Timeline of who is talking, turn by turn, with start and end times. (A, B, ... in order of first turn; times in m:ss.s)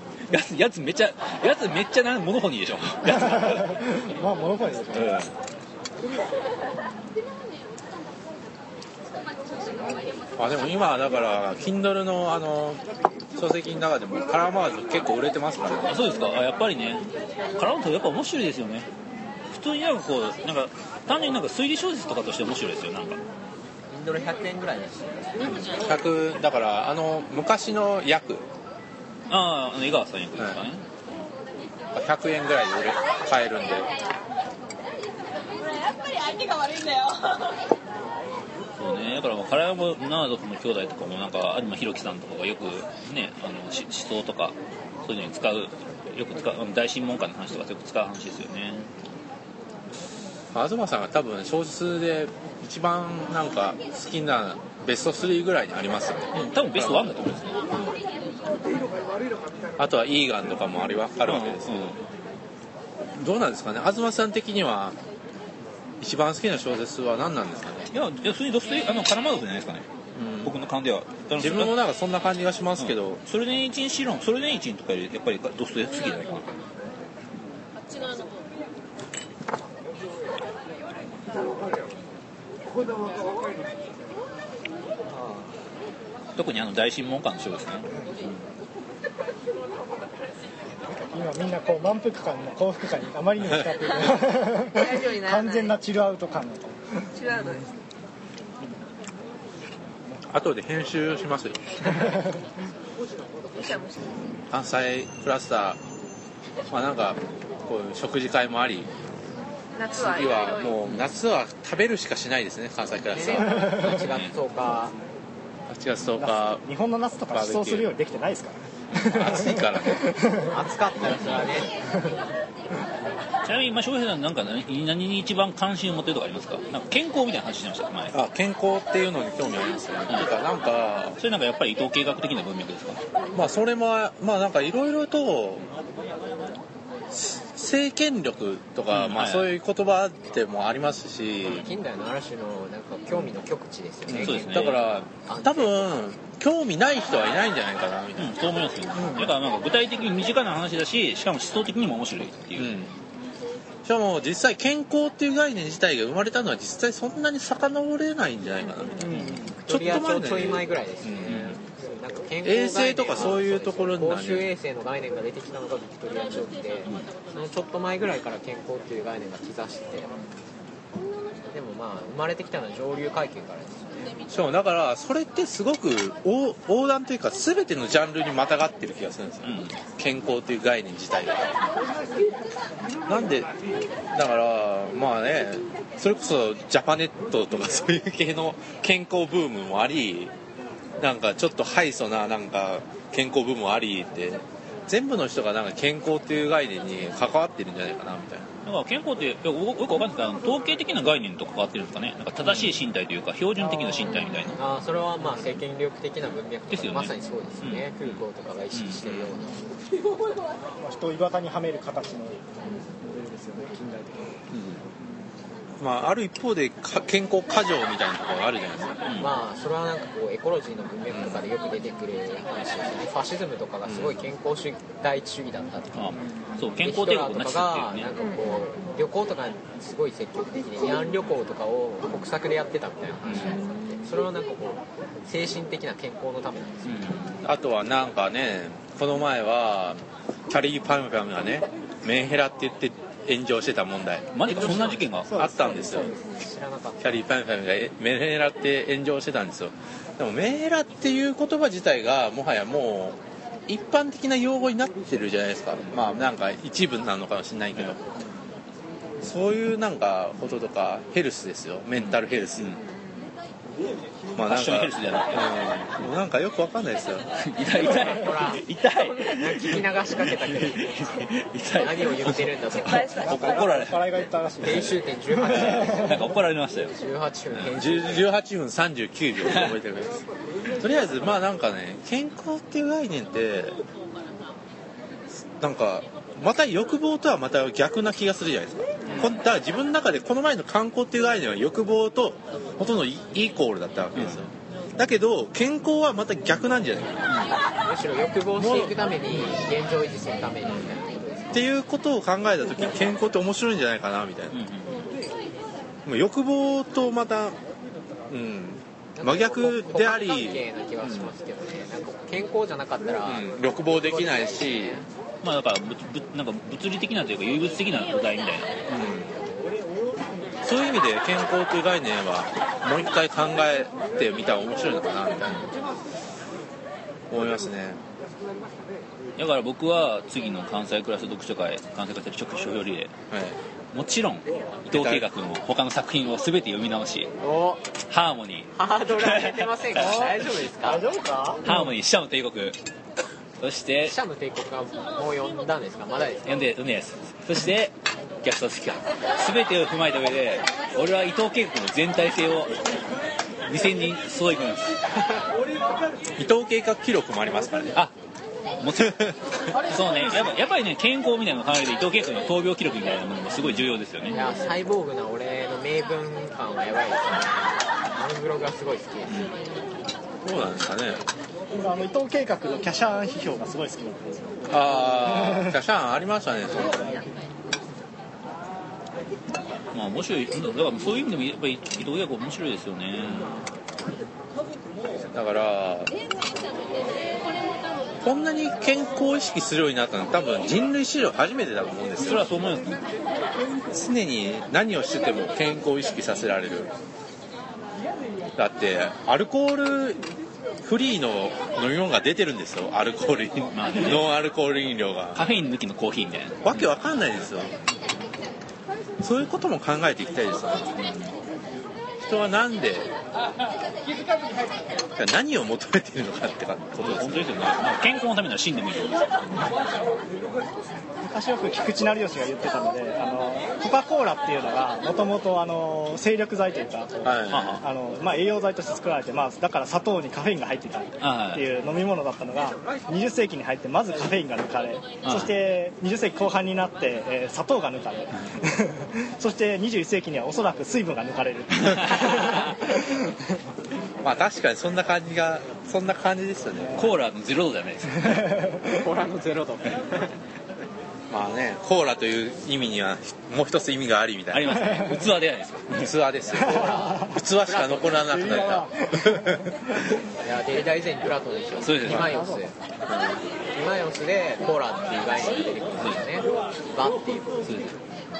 0:00.3-0:03.8 A
0:03.1-0:05.3 B
0:04.9-0:05.3 A
0:10.4-0:12.8 C
0:13.4-0:16.0 C
0:15.8-0:17.0 A
0:17.6-0:18.9 A
0:19.5-0:23.2 A
0:23.9-0:25.5 D
0:25.5-0:28.4 C
0:29.3-0:30.8 A
0:31.9-0:33.9 C
0:38.8-0:48.8 A
0:50.5-0:57.2 C
0:56.3-0:57.7 A
0:59.8-1:01.9 C
1:01.2-1:02.0 A
1:03.2-1:05.0 C
1:06.0-1:07.9 C
1:07.9-1:09.9 A
1:10.2-1:10.5 C
1:10.4-1:11.8 A
1:11.4-1:13.2 C
1:12.8-1:16.5 A
1:26.4-1:27.9 A
1:31.1-1:37.1 B
1:34.7-1:35.8 E
1:37.1-1:37.7 E
1:40.3-1:42.1 C
1:43.5-1:44.3 E
1:44.5-1:45.8 C
1:46.7-1:48.9 C
1:49.7-1:50.8 E
1:49.9-1:53.7 C
1:53.1-1:54.9 D
1:53.8-1:54.3 A
1:55.7-1:56.6 C
1:56.2-2:00.5 B
1:57.3-1:57.9 C
1:58.9-2:00.2 C
2:00.4-2:01.7 D
2:03.4-2:08.1 A
2:08.1-2:11.2 C
2:11.2-2:13.0 A
2:13.3-2:15.6 C
2:17.1-2:21.7 C
2:18.9-2:19.5 A
2:21.4-2:25.9 D
2:24.1-2:28.4 C
2:24.1-2:24.9 A
2:28.2-2:32.8 A
2:28.9-2:29.3 C
2:32.6-2:32.9 C
2:33.8-2:41.4 C
2:39.0-2:50.1 D
2:39.0-2:39.4 A
2:41.2-2:41.6 A
2:42.4-2:44.5 C
2:51.5-2:54.2 D
2:54.3-3:01.5 C
2:59.4-2:59.8 A
3:03.1-3:03.5 C
3:04.1-3:10.3 C
3:11.0-3:18.5 C
3:18.6-3:24.6 A
3:23.6-3:24.2 B
3:24.0-3:24.6 E
3:24.5-3:29.6 D
3:26.7-3:29.1 A
3:30.8-3:34.4 B
3:34.5-3:34.8 C
3:35.8-3:39.0 C
3:39.0-3:39.3 A
3:39.2-3:46.2 D
3:41.1-3:41.4 C
3:43.8-3:44.2 C
3:45.9-3:48.1 A
3:46.8-3:57.3 D
3:48.1-3:48.6 E
3:53.2-3:53.6 A
3:53.4-3:54.1 E
3:56.8-3:57.4 A
3:57.4-4:06.1 C
4:04.3-4:05.3 A
4:04.5-4:05.1 D
4:05.2-4:06.1 B
4:05.8-4:07.2 D
4:07.0-4:18.0 C
4:19.2-4:22.7 C
4:21.9-4:22.8 A
4:22.8-4:23.4 E
4:24.3-4:27.3 C
4:24.4-4:26.0 A
4:27.4-4:34.1 A
4:27.8-4:31.1 D
4:31.8-4:33.1 D
4:32.8-4:33.8 E
4:33.2-4:36.3 B
4:34.6-4:36.2 D
4:35.4-4:36.9 A
4:36.9-4:38.3 D
4:37.6-4:40.2 C
4:39.4-4:39.7 A
4:40.8-4:43.8 C
4:45.6-4:57.3 C
4:49.1-4:49.4 A
4:54.1-4:54.4 A
4:57.8-5:01.6 D
4:58.6-4:59.0 C
5:00.6-5:00.9 C
5:01.5-5:04.6 C
5:04.5-5:05.0 A
5:06.0-5:07.6 C
5:08.3-5:11.3 C
5:09.1-5:13.5 D
5:13.2-5:15.0 C
5:15.4-5:18.8 A
5:18.9-5:19.4 C
5:20.6-5:25.7 C
5:27.3-5:28.0 C
5:29.4-5:33.1 A
5:33.3-5:33.6 C
5:33.9-5:37.3 A
5:34.9-5:35.2 C
5:37.4-5:37.8 D
5:38.1-5:40.2 A
5:38.7-5:41.0 D
5:40.0-5:41.9 B
5:41.6-5:42.8 A
5:43.6-5:44.2 A
5:44.0-5:46.5 D
5:46.4-5:52.8 A
5:53.6-5:54.9 A
5:56.4-5:58.0 C
5:58.8-6:04.4 A
5:59.0-5:59.3 C
6:04.3-6:09.5 D
6:10.4-6:11.2 C
6:11.7-6:15.7 B
6:14.7-6:17.2 C
6:19.9-6:23.6 A
6:23.2-6:23.5 C
6:25.3-6:26.1 C
6:28.2-6:32.4 C
6:32.2-6:33.0 A
6:33.9-6:36.9 C
6:38.6-6:40.2 C
6:40.8-6:45.4 C
6:43.7-6:44.3 A
6:45.3-6:46.9 A
6:46.6-6:47.7 C
6:49.2-6:50.9 C
6:51.0-6:51.3 A
6:52.2-6:53.1 C
6:55.2-6:57.8 C
6:57.0-6:59.7 A
7:01.2-7:23.3 B
7:07.2-7:07.8 C
7:07.5-7:07.8 A
7:11.2-7:11.6 A
7:15.2-7:15.5 A
7:21.8-7:22.7 A
7:24.2-7:27.1 C
7:26.9-7:28.5 A
7:28.2-7:28.9 B
7:28.8-7:30.3 D
7:31.3-7:34.8 C
7:34.5-7:36.1 A
7:35.0-7:35.2 B
7:36.0-7:40.2 C
7:36.5-7:38.2 D
7:36.8-7:37.3 B
7:38.2-7:40.1 B
7:40.3-7:42.7 D
7:41.8-7:42.4 A
7:42.2-7:42.6 B
7:43.7-7:47.8 D
7:45.9-7:46.2 A
7:47.6-7:48.0 A